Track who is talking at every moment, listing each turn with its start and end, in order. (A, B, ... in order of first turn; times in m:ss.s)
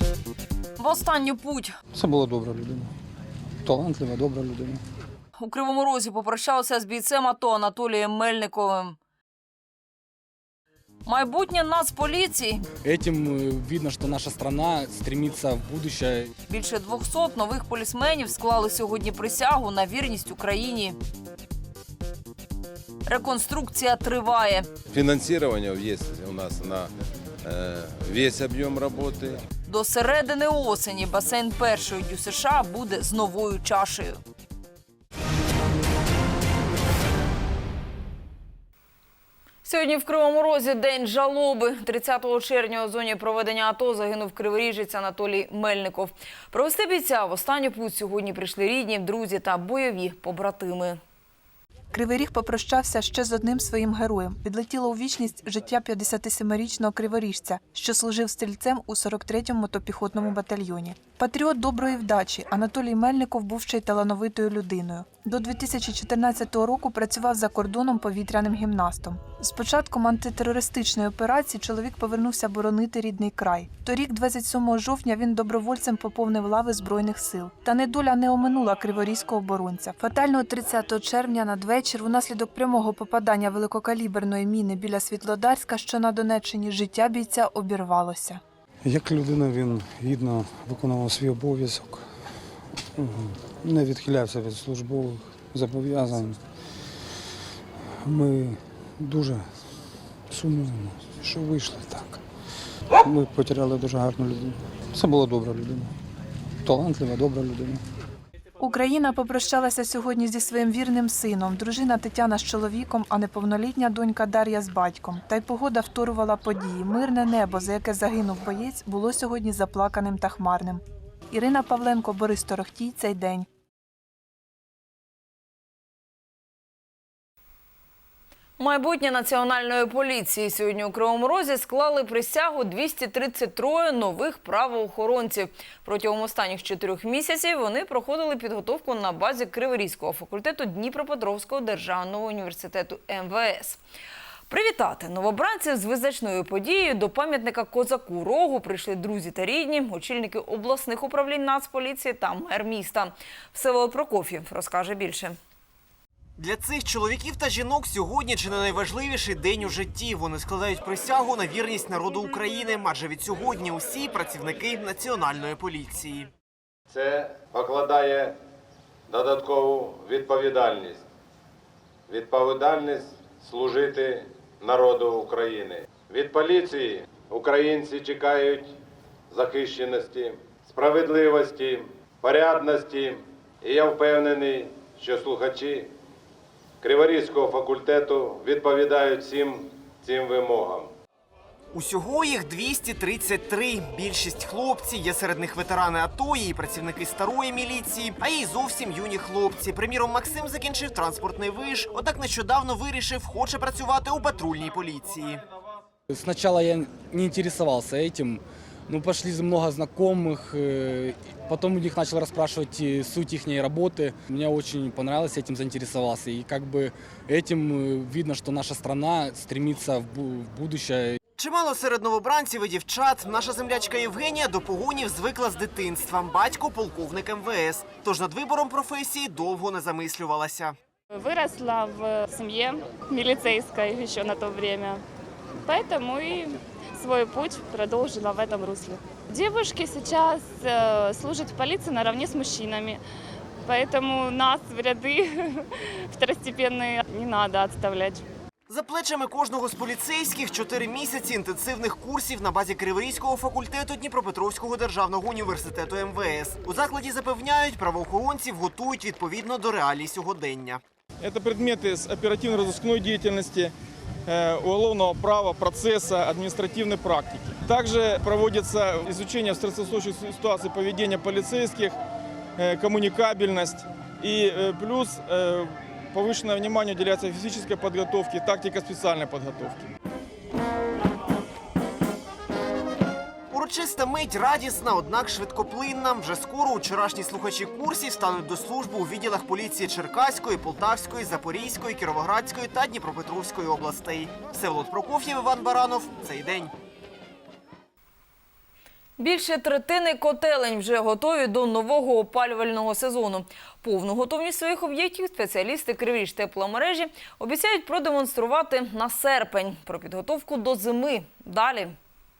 0:00.8-0:01.8 A
0:01.9-0:02.9 B
0:03.6-0:04.8 B
0:05.4-0:09.0 A
0:11.1-0:12.6 A
0:12.8-0:16.3 C
0:16.5-0:21.0 A
0:23.1-0:24.7 A
0:24.9-0:26.9 D
0:27.4-0:29.4 D
0:29.7-0:34.2 A
0:39.6-0:51.0 A
0:51.9-1:28.4 E
1:28.8-1:32.0 B
1:33.0-1:36.4 B
1:38.0-1:39.5 B
1:40.3-1:42.2 B
1:43.0-1:45.9 B
1:46.6-1:47.8 B
1:48.6-2:03.5 E
2:08.6-2:23.8 A
2:24.5-2:35.4 A
2:36.4-2:46.3 F
2:46.9-2:48.4 D
2:49.1-2:51.0 D
2:52.1-2:58.8 D
2:59.3-3:05.9 D
3:06.8-3:10.9 D
3:11.7-3:25.4 F
3:26.1-3:41.2 C
3:41.4-3:50.8 F
3:51.1-3:55.0 G
3:55.6-4:03.0 G
4:03.6-4:08.2 G
4:08.7-4:20.8 F
4:21.2-4:23.7 H
4:24.3-4:32.0 H
4:32.6-4:39.9 H
4:43.5-4:56.7 F
4:59.2-5:12.0 A